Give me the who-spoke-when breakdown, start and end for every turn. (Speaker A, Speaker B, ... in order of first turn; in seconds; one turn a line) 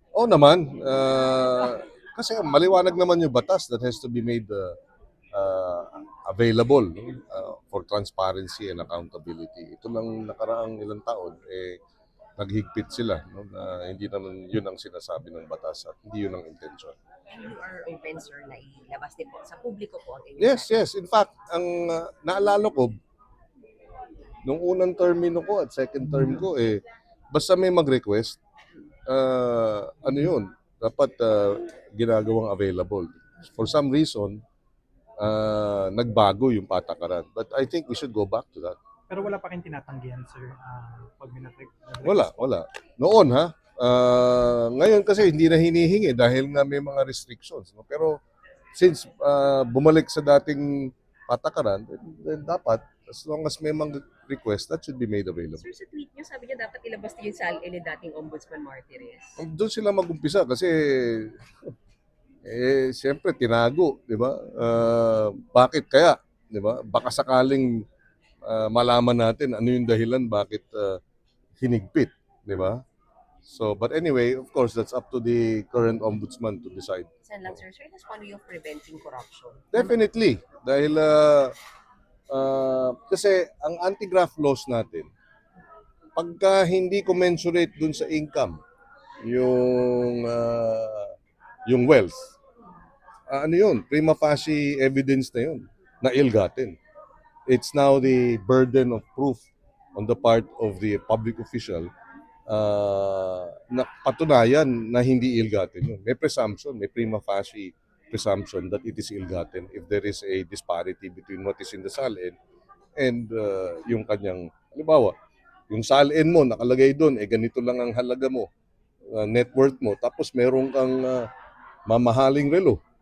Speaker A: 0.1-4.8
Speaker A: 5.3-11.8
Speaker A: 12.4-16.9
Speaker B: 17.3-20.7
Speaker A: 20.4-22.9
Speaker A: 24.4-28.4
Speaker A: 29.1-34.4
Speaker A: 35.2-38.8
Speaker C: 39.1-42.4
Speaker A: 42.0-48.2
Speaker A: 48.8-55.6
Speaker B: 55.6-59.4
Speaker A: 59.4-61.4
Speaker A: 62.5-67.8
Speaker A: 68.4-71.0
Speaker A: 71.6-72.8
Speaker A: 73.4-77.5
Speaker B: 77.2-79.9
Speaker A: 79.7-81.5
Speaker A: 82.3-85.1
Speaker A: 86.2-88.6
Speaker A: 89.2-91.1
Speaker A: 91.7-92.3
Speaker A: 93.3-96.8
Speaker A: 97.5-99.4
Speaker A: 99.9-101.9
Speaker A: 102.5-112.3
Speaker A: 113.0-115.1
Speaker A: 115.7-118.5
Speaker A: 119.1-121.3
Speaker A: 121.9-122.8